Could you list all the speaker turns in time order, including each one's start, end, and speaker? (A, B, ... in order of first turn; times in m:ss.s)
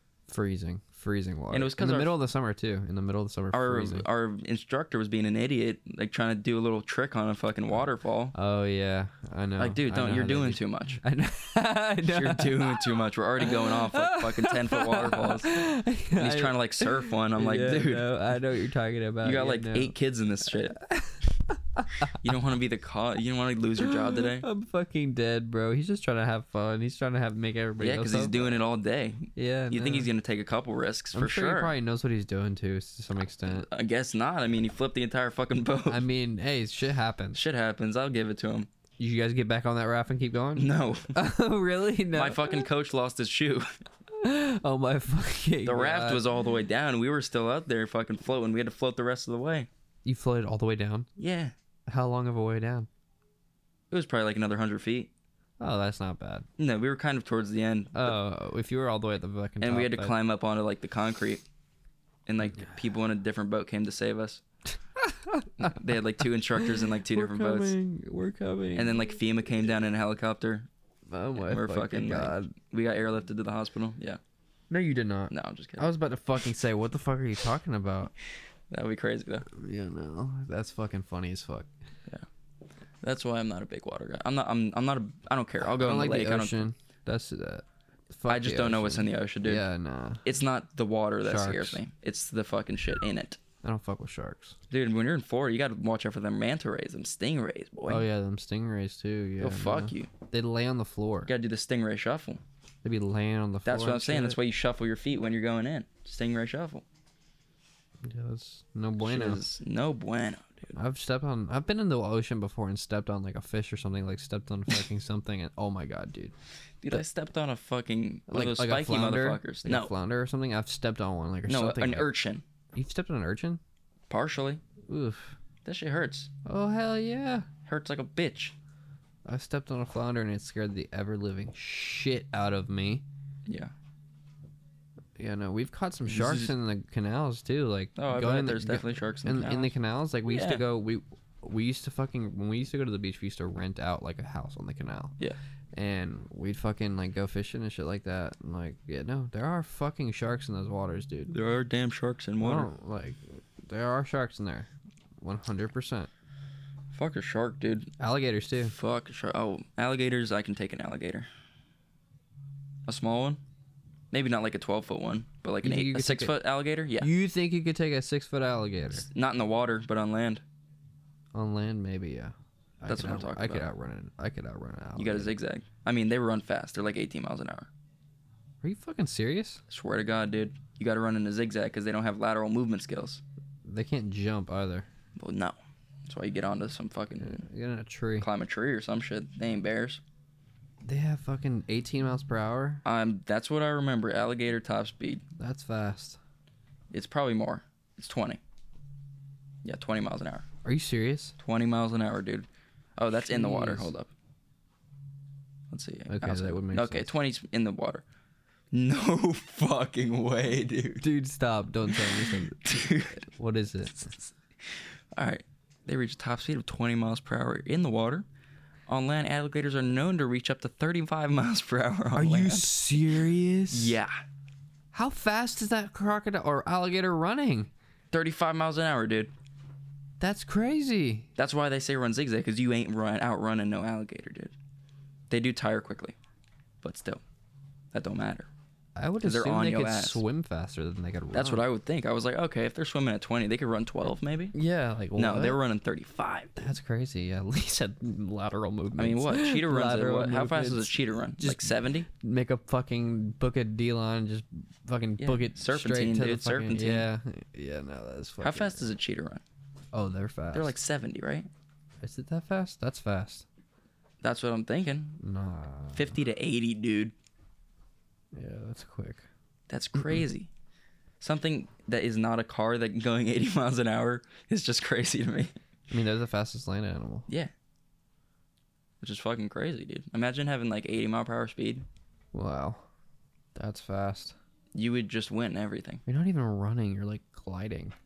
0:00.3-0:04.1 A
0:01.5-0:02.2 B
0:03.5-0:08.3 B
0:08.3-0:19.9 A
0:09.6-0:11.0 B
0:12.1-0:15.6 B
0:16.2-0:18.1 B
0:19.2-0:20.8 B
0:20.8-0:22.1 A
0:22.1-0:24.5 B
0:23.8-0:28.6 A
0:27.8-0:31.7 B
0:29.4-0:30.1 A
0:31.1-0:33.7 A
0:33.5-0:36.0 B
0:35.9-0:37.4 A
0:37.3-0:38.7 B
0:39.0-0:42.6 A
0:40.6-0:41.2 B
0:42.1-0:43.7 B
0:44.2-0:46.3 A
0:45.6-0:49.7 B
0:50.0-0:51.1 A
0:51.2-0:51.6 B
0:51.9-0:52.9 A
0:53.9-0:55.1 B
0:55.6-0:56.5 A
0:56.6-0:58.2 B
0:57.9-1:00.2 A
0:59.6-1:01.4 B
1:02.3-1:04.4 B
1:05.0-1:05.8 A
1:05.6-1:07.8 B
1:06.6-1:09.1 A
1:08.8-1:10.7 B
1:11.1-1:12.5 A
1:11.4-1:14.2 B
1:14.7-1:18.1 A
1:15.3-1:15.9 B
1:18.7-1:19.5 B
1:19.5-1:21.7 A
1:23.0-1:26.7 B
1:25.6-1:30.2 A
1:28.3-1:29.6 B
1:30.2-1:33.4 B
1:31.2-1:31.8 A
1:33.6-1:34.6 A
1:34.7-1:38.0 B
1:37.9-1:41.3 A
1:39.4-1:40.1 B
1:41.2-1:42.4 B
1:42.8-1:44.4 A
1:43.6-1:46.8 B
1:48.0-1:49.4 A
1:49.0-1:50.7 B
1:50.7-1:56.3 A
1:56.8-1:59.9 B
1:58.3-2:02.1 A
2:01.5-2:02.4 B
2:02.8-2:03.6 A
2:04.1-2:04.6 B
2:04.9-2:05.4 A
2:05.6-2:06.3 B
2:06.4-2:07.5 A
2:07.6-2:08.6 B
2:09.2-2:13.0 A
2:13.5-2:13.7 B
2:15.2-2:25.2 A
2:16.1-2:16.5 B
2:18.0-2:20.6 B
2:25.7-2:31.4 A
2:31.3-2:32.7 B
2:32.4-2:34.7 A
2:35.2-2:36.1 A
2:36.9-2:37.9 B
2:38.0-2:38.7 A
2:38.6-2:41.3 B
2:42.9-2:43.4 B
2:44.1-2:47.1 B
2:45.6-2:46.4 A
2:47.0-2:49.1 A
2:49.0-2:50.4 B
2:51.3-2:55.4 A
2:52.9-2:53.7 B
2:55.0-2:57.7 B
2:58.6-2:59.6 A
2:59.7-3:03.2 B
3:03.6-3:04.9 A
3:05.2-3:07.4 B
3:07.2-3:08.3 A
3:08.2-3:10.0 B
3:10.8-3:12.8 A
3:12.8-3:15.2 B
3:15.4-3:16.2 A
3:16.9-3:18.4 B
3:19.6-3:20.5 B
3:20.6-3:21.4 A
3:21.4-3:24.1 B
3:23.2-3:23.9 A
3:25.7-3:28.0 B
3:26.1-3:27.1 A
3:28.7-3:31.0 B
3:31.0-3:32.8 A
3:31.9-3:33.3 B
3:33.3-3:34.2 A
3:34.6-3:38.3 B
3:38.9-3:42.7 B
3:42.1-3:44.0 A
3:43.7-3:44.2 B
3:44.9-3:47.7 A
3:48.1-3:49.3 B
3:50.2-3:51.3 A
3:51.4-3:54.6 B
3:55.3-3:56.2 B
3:56.8-3:57.2 B
3:57.9-3:58.5 B
3:59.0-4:01.6 A
3:59.2-4:00.2 B
4:01.3-4:04.5 B
4:04.5-4:05.6 A
4:05.2-4:06.7 B
4:06.6-4:18.9 A
4:09.0-4:12.1 B
4:15.2-4:17.1 B
4:18.4-4:19.4 B
4:19.9-4:20.8 A
4:20.5-4:21.5 B
4:22.0-4:23.4 A
4:24.2-4:25.2 B
4:25.2-4:26.1 A
4:25.9-4:27.1 B
4:28.3-4:29.3 A
4:29.7-4:30.5 B
4:31.2-4:35.5 B
4:35.9-4:37.3 A
4:39.0-4:41.8 B
4:42.3-4:42.9 A
4:43.6-4:44.4 A
4:44.7-4:46.0 B
4:46.1-4:48.0 A